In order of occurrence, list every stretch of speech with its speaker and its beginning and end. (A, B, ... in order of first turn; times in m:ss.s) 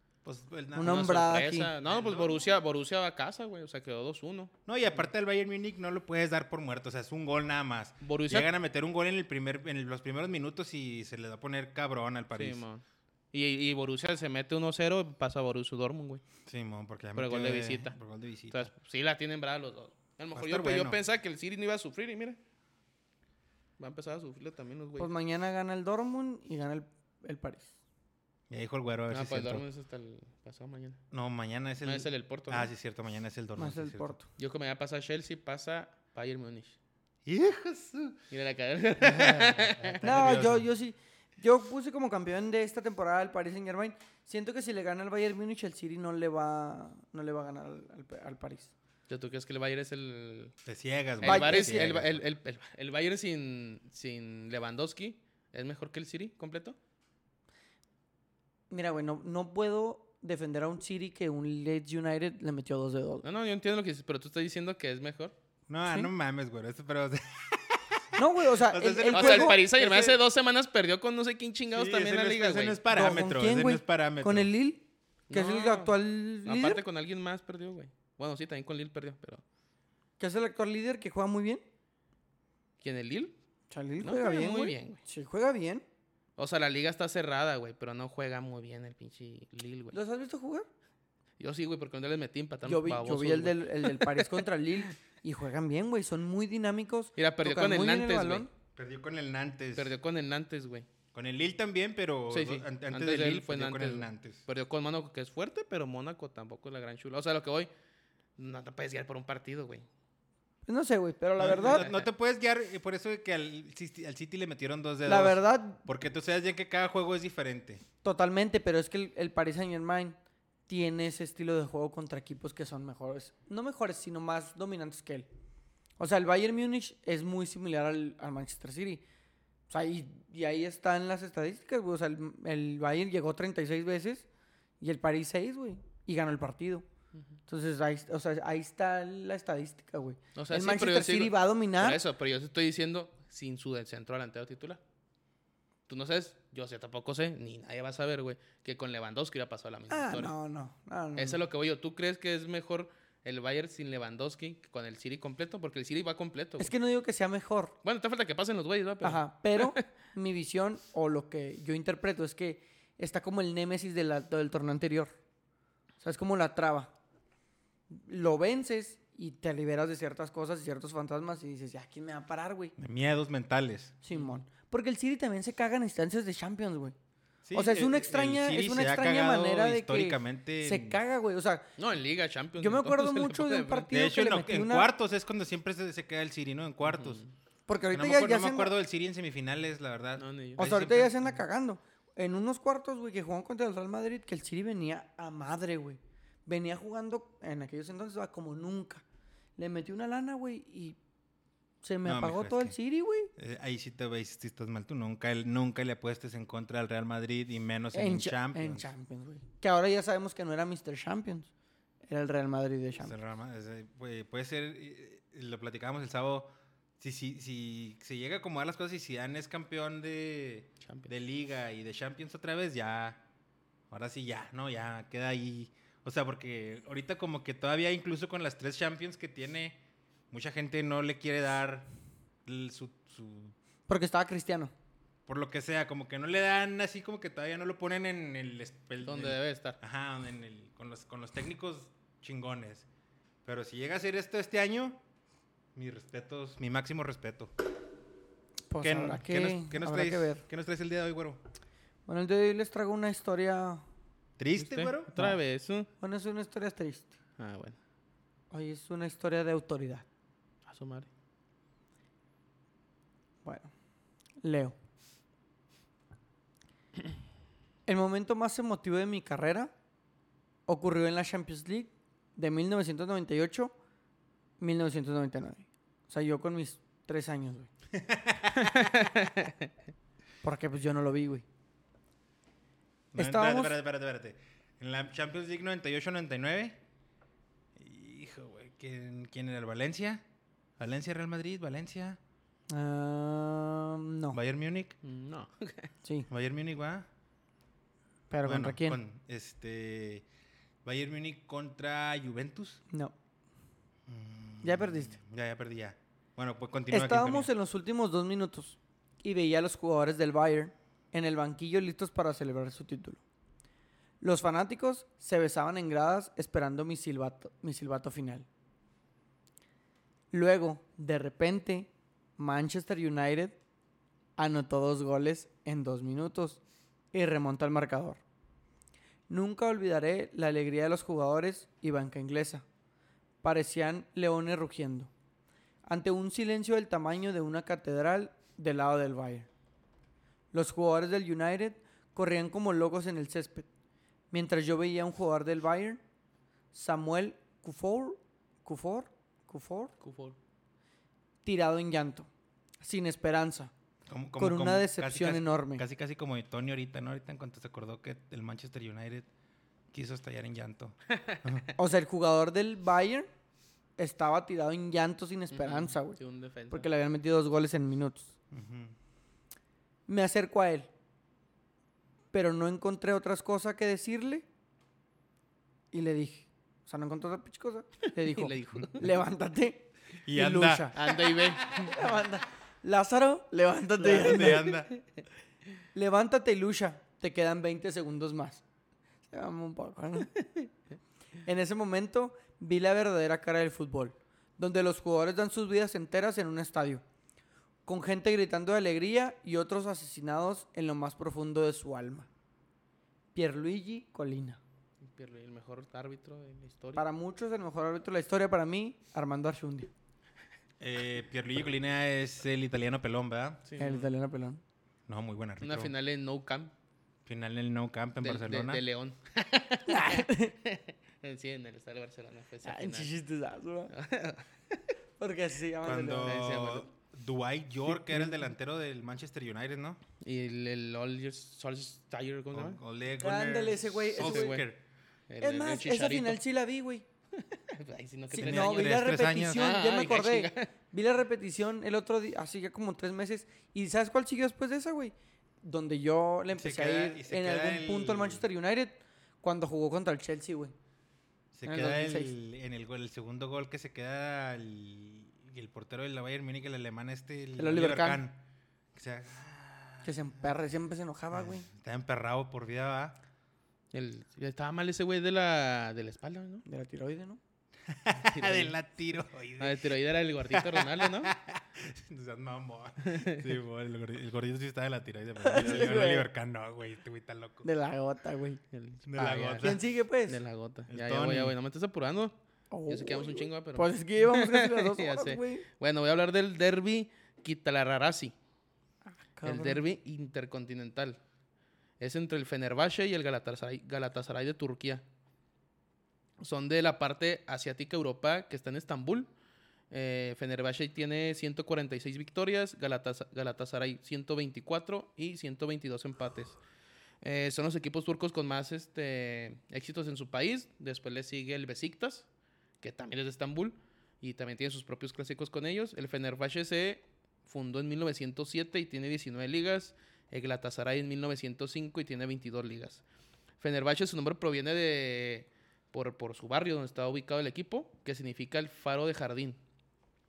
0:00.2-0:01.1 A
0:00.7-0:01.7 B
0:00.8-0:04.5 C
0:01.8-0:02.5 A
0:04.7-0:12.6 A
0:08.0-0:08.5 C
0:12.3-0:16.2 C
0:16.4-0:18.7 A
0:17.2-0:18.0 C
0:18.5-0:22.4 C
0:20.3-0:21.0 A
0:23.8-0:25.1 C
0:25.0-0:27.7 B
0:28.5-0:29.6 A
0:29.1-0:31.0 C
0:31.1-0:34.2 A
0:31.8-0:32.7 C
0:33.6-0:34.3 B
0:34.4-0:36.8 C
0:37.3-0:38.2 A
0:38.3-0:40.3 C
0:39.0-0:40.7 A
0:40.0-0:48.7 B
0:49.1-0:50.5 C
0:50.6-0:52.2 A
0:51.2-0:56.8 C
0:51.2-0:51.9 B
0:58.7-1:03.2 B
1:03.2-1:05.3 C
1:05.7-1:10.2 A
1:08.2-1:09.6 B
1:09.1-1:12.8 C
1:11.7-1:14.5 A
1:12.9-1:16.8 B
1:15.3-1:19.4 C
1:20.2-1:21.6 B
1:22.8-1:23.4 C
1:23.7-1:25.8 B
1:24.0-1:25.0 C
1:26.4-1:30.0 C
1:29.9-1:30.7 B
1:31.4-1:34.4 C
1:32.6-1:38.5 B
1:37.2-1:38.5 C
1:38.8-1:39.9 A
1:39.7-1:40.9 C
1:41.1-1:44.4 A
1:42.3-1:47.7 C
1:48.4-1:49.9 C
1:50.6-1:51.8 B
1:51.4-1:57.8 A
1:51.5-1:52.1 C
1:55.1-1:55.8 B
1:58.0-2:00.2 B
2:00.7-2:05.3 B
2:06.0-2:09.0 B
2:09.7-2:14.3 B
2:14.8-2:16.8 B
2:17.5-2:22.0 B
2:20.4-2:24.8 C
2:25.9-2:30.3 C
2:29.9-2:31.4 B
2:31.2-2:36.7 C
2:36.6-2:37.7 B
2:37.8-2:39.8 C
2:39.0-2:45.1 B
2:46.0-2:46.9 B
2:47.9-2:52.7 B
2:52.8-2:54.0 A
2:54.0-2:56.9 B
2:57.4-3:01.0 A
2:57.5-3:01.7 B
3:01.8-3:03.9 C
3:02.6-3:04.9 B
3:03.9-3:07.2 A
3:06.8-3:07.3 C
3:07.7-3:08.8 B
3:07.9-3:10.9 A
3:10.2-3:11.1 C
3:10.6-3:19.0 B
3:19.6-3:21.0 B
3:21.8-3:23.3 B
3:22.0-3:22.8 A
3:23.4-3:28.9 A
3:27.9-3:31.5 B
3:32.1-3:33.2 B
3:33.0-3:43.2 A
3:40.8-3:41.1 C
3:43.9-3:49.8 A
3:50.3-3:51.9 A
3:52.4-3:53.6 A
3:53.9-3:54.7 B
3:55.3-4:02.9 A
3:59.0-3:59.8 C
4:03.4-4:05.0 A
4:05.7-4:07.5 A
4:08.7-4:10.4 B
4:08.8-4:11.4 A
4:12.1-4:13.8 B
4:14.4-4:15.4 A
4:14.6-4:15.9 C
4:16.0-4:17.1 B
4:17.4-4:17.8 C
4:18.5-4:20.1 B
4:20.6-4:21.1 C
4:23.4-4:23.7 B
4:24.4-4:24.7 B
4:27.9-4:29.7 B
4:30.7-4:33.7 B
4:34.6-4:37.7 B
4:37.9-4:39.0 A
4:38.6-4:39.7 C
4:40.4-4:41.4 B
4:43.1-4:46.8 A
4:43.2-4:43.8 B
4:47.8-4:50.2 A
4:50.8-4:52.2 A
4:52.7-4:54.4 B
4:54.3-4:55.0 A
4:55.0-4:55.9 C
4:56.3-4:57.1 A
4:58.3-4:59.0 B
4:58.4-5:00.3 A
5:00.8-5:02.8 A
5:04.1-5:07.5 A
5:04.6-5:05.2 B
5:06.9-5:13.2 B
5:14.2-5:18.5 B
5:20.3-5:23.6 B
5:24.4-5:26.6 B
5:27.1-5:28.2 B
5:29.3-5:32.6 B
5:33.4-5:35.1 B
5:35.9-5:39.5 B
5:40.5-5:43.7 B
5:44.3-5:46.0 B
5:46.7-5:49.9 B
5:50.0-5:50.4 C
5:51.4-5:52.3 B
5:52.8-5:53.7 B
5:54.1-5:59.3 A
5:54.4-5:55.8 B
5:59.9-6:01.7 A
6:01.1-6:01.6 C
6:01.8-6:03.3 B
6:04.0-6:06.2 B
6:05.5-6:06.9 C
6:06.7-6:08.3 B
6:08.5-6:09.0 A
6:10.1-6:10.9 B
6:12.3-6:14.4 B
6:15.9-6:24.7 B
6:18.2-6:19.1 C
6:20.2-6:21.9 A
6:20.9-6:22.0 C
6:24.0-6:25.0 C
6:24.1-6:24.9 A
6:25.9-6:28.6 B
6:29.3-6:30.3 B
6:31.4-6:37.0 B
6:37.9-6:42.3 B
6:43.4-6:44.6 B
6:45.0-6:47.0 C
6:47.0-6:49.9 B
6:50.8-6:53.6 A
6:53.7-6:54.1 C
6:53.8-6:54.6 B
6:55.1-6:55.9 A
6:55.6-6:56.7 C
6:57.3-6:58.8 A
6:58.2-7:03.1 C
6:59.9-7:00.5 B
7:02.6-7:03.9 B
7:03.9-7:04.9 C
7:05.2-7:06.4 B
7:05.8-7:10.0 A
7:06.2-7:06.9 C
7:10.2-7:12.8 C
7:12.5-7:14.8 A
7:13.2-7:14.6 B
7:14.2-7:14.6 C
7:15.3-7:16.4 C
7:15.4-7:17.0 B
7:17.3-7:20.7 C
7:18.3-7:30.7 B
7:18.4-7:19.7 A
7:26.6-7:28.4 A
7:31.5-7:38.4 A
7:31.6-7:32.3 B
7:37.6-7:38.2 B
7:38.9-7:40.1 A
7:40.0-7:41.7 B
7:41.3-7:43.2 A
7:43.9-7:46.6 C
7:46.6-7:47.4 B
7:47.9-7:49.9 A
7:48.3-7:48.7 C
7:49.6-7:51.3 C
7:50.4-7:57.7 A
7:53.0-7:53.5 C
7:55.4-7:56.3 B
7:57.6-7:58.6 B
7:58.7-8:02.4 C
7:59.1-7:59.8 A
7:59.6-8:00.4 B
8:00.9-8:01.6 A
8:02.7-8:05.6 B
8:02.9-8:08.3 C
8:09.2-8:09.8 B
8:09.4-8:11.2 C
8:12.0-8:15.0 C
8:16.4-8:19.3 C
8:19.9-8:26.6 C
8:27.2-8:32.3 C
8:32.8-8:43.0 C
8:43.6-8:49.6 C